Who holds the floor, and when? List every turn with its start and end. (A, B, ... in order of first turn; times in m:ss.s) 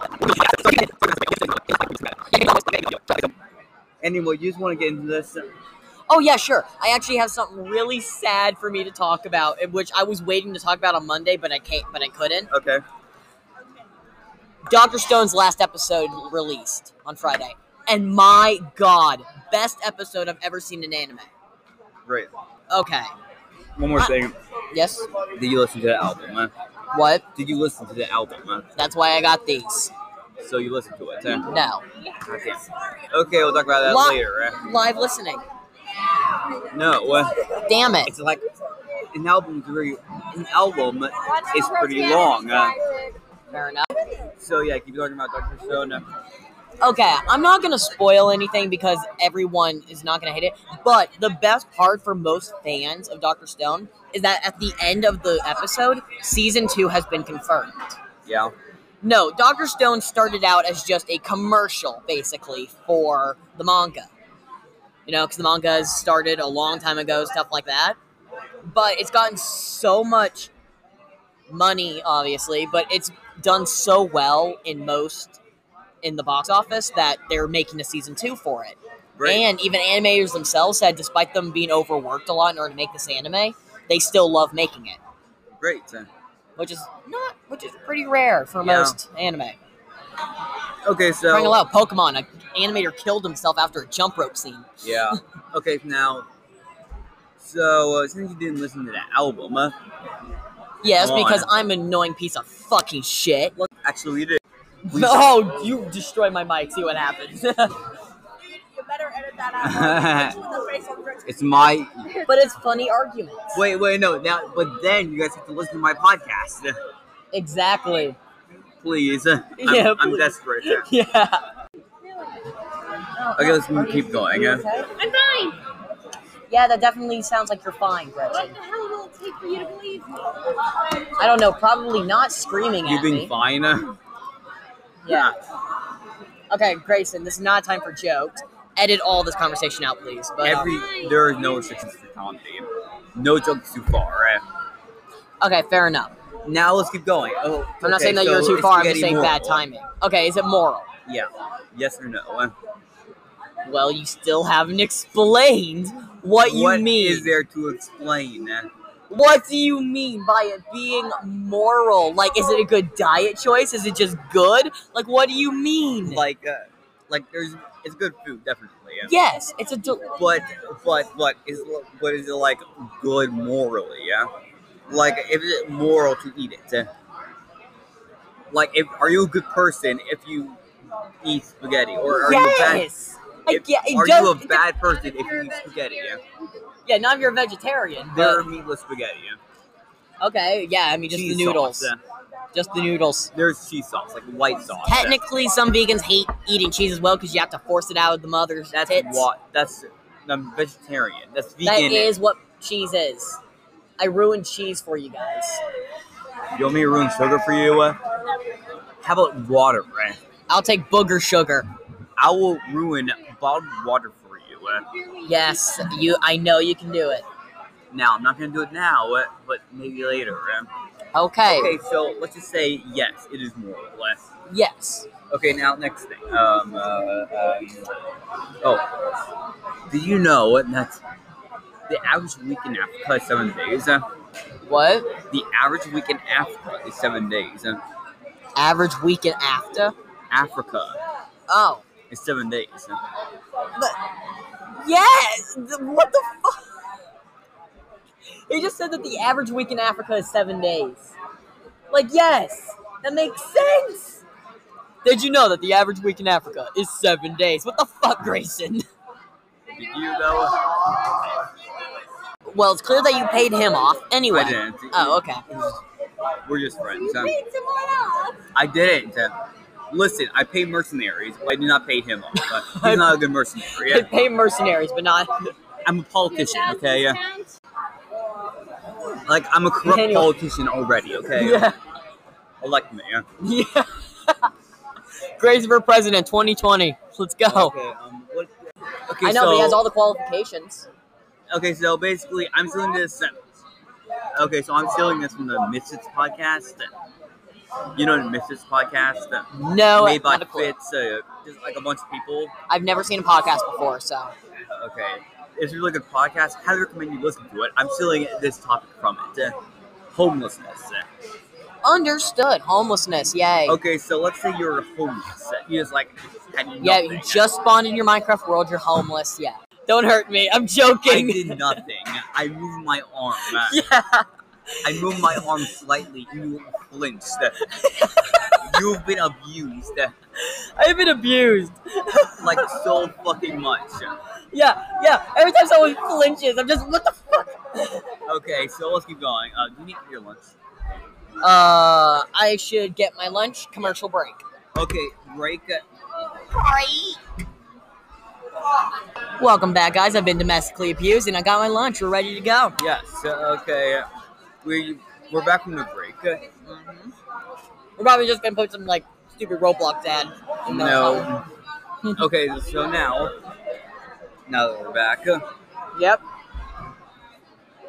0:00.2-0:00.9 A
0:00.3-0:01.9 B
0:02.3-0:03.2 A
0:04.0-0:05.5 B
0:06.1-0:12.5 A
0:12.5-0:12.8 B
0:14.7-0:21.3 A
0:22.1-0:22.3 B
0:22.7-0:23.1 A
0:23.8-0:24.4 B
0:24.7-0:25.1 A
0:25.3-0:26.5 B
0:26.9-0:27.2 A
0:27.4-0:28.7 B
0:28.8-0:29.9 A
0:30.4-0:31.5 B
0:31.5-0:31.8 A
0:32.2-0:34.6 B
0:33.8-0:35.4 A
0:36.7-0:37.4 B
0:37.6-0:38.1 A
0:38.0-0:38.4 B
0:39.0-0:42.8 B
0:43.5-0:43.9 A
0:44.4-0:46.0 B
0:46.8-0:58.0 A
0:58.3-0:58.5 B
0:59.0-1:04.1 A
1:05.1-1:08.0 A
1:08.7-1:10.5 A
1:11.5-1:15.4 A
1:16.0-1:25.0 A
1:19.2-1:19.5 B
1:25.6-1:26.1 B
1:26.6-1:29.6 A
1:28.6-1:29.0 B
1:30.8-1:31.6 B
1:31.3-1:35.0 A
1:34.8-1:36.3 B
1:37.4-1:39.7 B
1:40.8-1:43.5 A
1:41.0-1:41.5 B
1:43.6-1:45.6 B
1:44.9-1:47.8 A
1:48.8-1:49.6 C
1:49.6-1:50.5 B
1:50.5-1:51.2 C
1:51.2-1:52.2 B
1:52.2-1:53.6 A
1:53.5-1:56.8 B
1:57.3-1:58.2 A
1:58.8-2:00.9 B
1:59.6-2:01.4 A
2:03.1-2:05.5 A
2:03.4-2:04.7 B
2:05.2-2:05.5 C
2:06.5-2:08.6 A
2:08.6-2:10.1 C
2:11.2-2:13.3 A
2:12.8-2:14.0 B
2:15.0-2:15.3 A
2:15.1-2:15.4 B
2:16.5-2:20.8 A
2:20.4-2:24.4 B
2:25.4-2:26.1 A
2:26.4-2:29.6 B
2:27.8-2:30.9 A
2:31.1-2:32.5 B
2:33.6-2:37.3 A
2:36.4-2:38.7 B
2:39.1-2:46.2 A
2:46.1-2:49.1 B
2:49.1-2:50.1 A
2:50.1-2:54.3 B
2:54.9-2:56.9 B
2:58.5-3:00.6 B
3:01.2-3:02.9 B
3:02.1-3:04.7 A
3:03.5-3:06.2 B
3:06.9-3:08.5 A
3:08.1-3:09.4 B
3:10.2-3:11.9 A
3:11.1-3:12.0 B
3:12.5-3:13.3 A
3:13.3-3:15.2 B
3:14.8-3:19.3 A
3:18.7-3:22.1 B
3:21.6-3:23.4 A
3:24.0-3:25.6 A
3:26.6-3:28.0 B
3:29.0-3:30.2 B
3:30.5-3:31.7 A
3:32.2-3:34.9 B
3:35.2-3:37.3 A
3:37.9-3:40.7 B
3:41.1-3:41.7 A
3:41.5-3:44.2 B
3:44.5-3:45.1 A
3:45.3-3:47.9 B
3:48.6-3:48.9 B
3:49.9-3:51.0 B
3:51.9-3:54.0 B
3:54.6-3:55.1 A
3:55.3-3:57.8 B
3:58.6-3:59.9 A
4:00.3-4:01.0 B
4:01.5-4:01.8 A
4:02.1-4:03.0 B
4:04.8-4:06.7 A
4:08.3-4:11.2 A
4:11.9-4:14.2 A
4:15.0-4:18.8 A
4:19.7-4:20.6 B
4:22.5-4:25.4 A
4:24.3-4:25.8 B
4:26.5-4:27.4 B
4:27.7-4:28.1 C
4:28.5-4:29.3 B
4:29.9-4:34.1 B
4:32.4-4:35.5 A
4:35.8-4:37.3 B
4:39.2-4:41.7 B
4:39.8-4:40.3 A
4:41.4-4:41.8 A
4:42.6-4:43.3 B
4:43.4-4:44.5 A
4:45.4-4:47.7 A
4:47.5-4:48.5 B
4:49.1-4:49.8 B
4:49.2-4:50.9 A
4:51.5-4:53.4 B
4:54.3-4:56.9 B
4:58.0-5:02.5 B
4:59.5-5:00.7 A
5:02.7-5:04.3 A
5:04.7-5:09.6 B
5:10.1-5:11.1 B
5:11.8-5:13.8 A
5:13.7-5:17.5 B
5:16.8-5:21.8 A
5:21.0-5:23.8 B
5:23.5-5:25.5 A
5:24.8-5:27.6 B
5:27.7-5:28.8 A
5:28.6-5:30.1 B
5:30.4-5:32.8 A
5:32.4-5:34.2 B
5:34.5-5:38.1 A
5:38.3-5:40.5 B
5:41.4-5:44.4 A
5:44.8-5:45.8 B
5:46.5-5:47.2 A
5:49.4-5:52.8 A
5:52.8-5:54.1 B
5:54.6-5:56.4 B
5:56.6-5:57.1 A
5:58.0-6:01.3 A
6:00.6-6:01.5 B
6:02.2-6:03.3 B
6:04.5-6:05.4 B
6:05.9-6:06.2 A